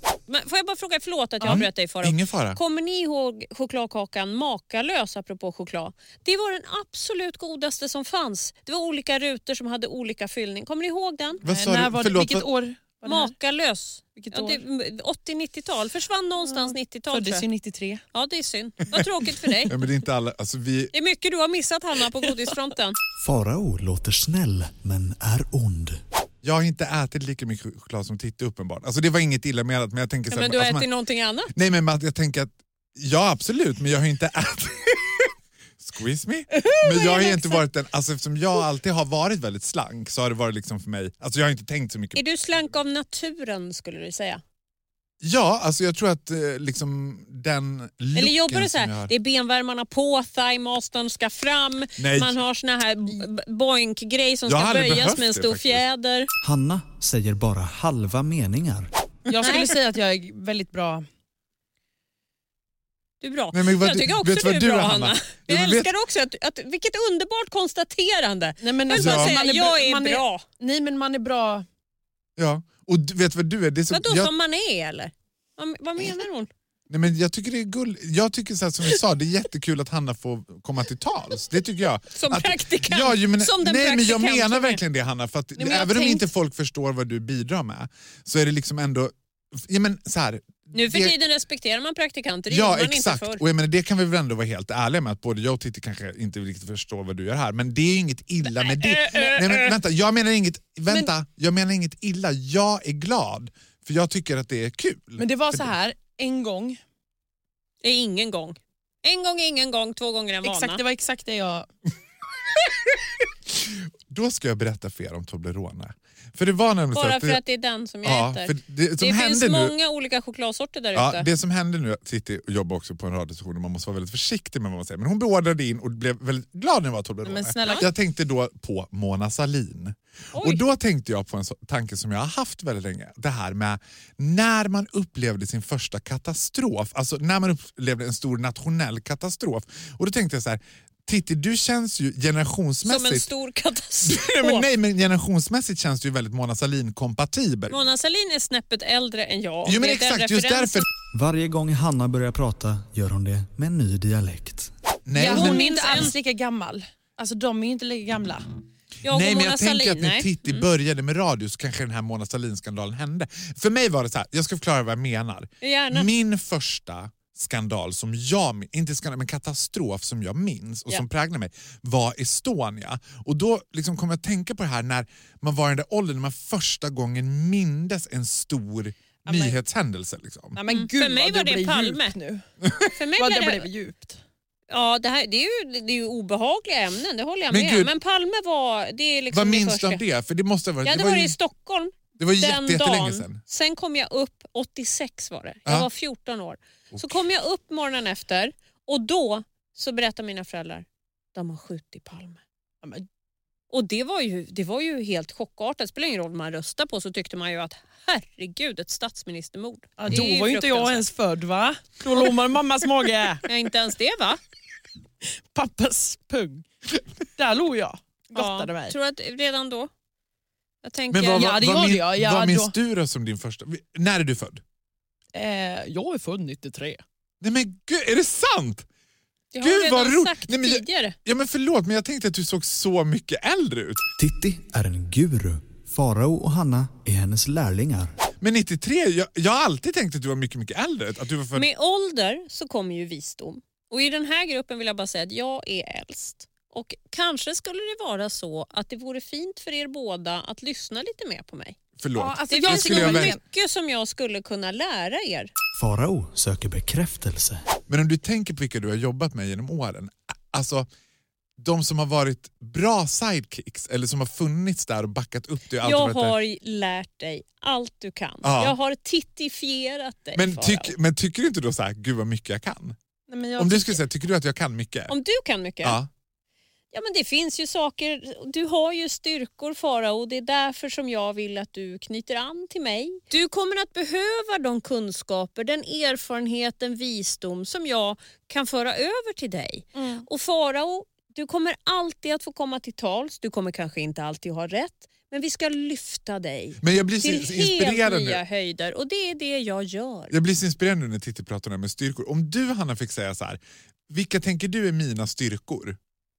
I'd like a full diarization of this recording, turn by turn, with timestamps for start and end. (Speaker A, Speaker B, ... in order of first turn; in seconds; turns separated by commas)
Speaker A: 0.3-11.4, Speaker B: 1.4-2.6, Speaker B: 11.4-12.4, Speaker C: 11.5-13.3, Speaker A: 13.0-17.4, Speaker C: 14.2-14.6, Speaker C: 16.5-18.0, Speaker A: 18.1-19.7, Speaker B: 19.7-20.9, Speaker A: 20.9-23.0, Speaker D: 23.2-26.0, Speaker B: 26.4-30.9, Speaker A: 30.3-31.5, Speaker B: 31.5-42.2, Speaker A: 36.5-37.6, Speaker A: 42.1-44.4, Speaker B: 45.2-49.1, Speaker A: 48.1-56.3, Speaker B: 52.0-52.4, Speaker B: 54.5-55.8, Speaker D: 56.4-58.9, Speaker C: 59.3-61.0, Speaker A: 59.3-59.7, Speaker A: 63.2-70.4, Speaker B: 63.5-65.9, Speaker C: 68.6-71.7, Speaker B: 68.9-69.3, Speaker B: 72.4-74.3, Speaker A: 73.9-76.5, Speaker B: 76.9-91.1, Speaker A: 82.1-84.8, Speaker C: 85.6-86.2, Speaker A: 90.7-93.4, Speaker B: 92.5-105.7, Speaker A: 98.5-99.7, Speaker C: 105.2-106.8, Speaker A: 107.8-110.8, Speaker C: 110.4-111.7, Speaker B: 113.6-117.4, Speaker A: 116.9-121.2, Speaker B: 118.0-119.7, Speaker B: 120.9-143.3, Speaker C: 127.2-127.8, Speaker A: 130.3-130.6, Speaker A: 142.8-144.7, Speaker B: 144.1-147.8, Speaker A: 147.7-150.8, Speaker B: 149.6-150.8, Speaker D: 151.1-154.7, Speaker B: 155.0-156.1, Speaker C: 155.2-158.4, Speaker A: 155.3-156.1, Speaker A: 159.0-160.6, Speaker B: 159.1-180.6, Speaker A: 165.6-166.1, Speaker C: 179.2-179.6, Speaker C: 180.5-182.4, Speaker A: 180.7-182.1, Speaker B: 182.6-182.9, Speaker A: 182.9-183.7, Speaker C: 183.2-184.2, Speaker A: 184.7-190.0, Speaker B: 187.5-187.9, Speaker B: 189.3-191.3, Speaker A: 190.8-202.4, Speaker B: 192.2-193.4, Speaker B: 196.9-197.2, Speaker A: 203.7-211.1, Speaker C: 210.0-213.4, Speaker A: 213.4-214.4, Speaker C: 215.2-216.7, Speaker C: 217.3-218.9, Speaker A: 218.3-219.9, Speaker A: 220.8-221.5, Speaker B: 221.1-224.6, Speaker C: 221.3-222.7, Speaker C: 225.3-227.0, Speaker B: 227.4-228.8, Speaker A: 229.5-231.1, Speaker B: 229.6-234.0, Speaker D: 234.2-238.1, Speaker B: 238.4-241.7, Speaker A: 241.5-251.8, Speaker B: 252.0-253.3, Speaker C: 252.1-253.4, Speaker A: 252.5-255.5, Speaker D: 255.7-257.6, Speaker B: 257.9-260.9, Speaker B: 261.6-266.4, Speaker A: 265.8-270.9, Speaker B: 268.4-268.8, Speaker B: 270.4-272.9, Speaker C: 273.3-274.0, Speaker B: 273.6-275.1, Speaker A: 275.1-276.0, Speaker B: 275.8-276.1, Speaker A: 276.9-300.3, Speaker C: 289.9-290.2, Speaker B: 296.8-298.4, Speaker B: 300.3-306.0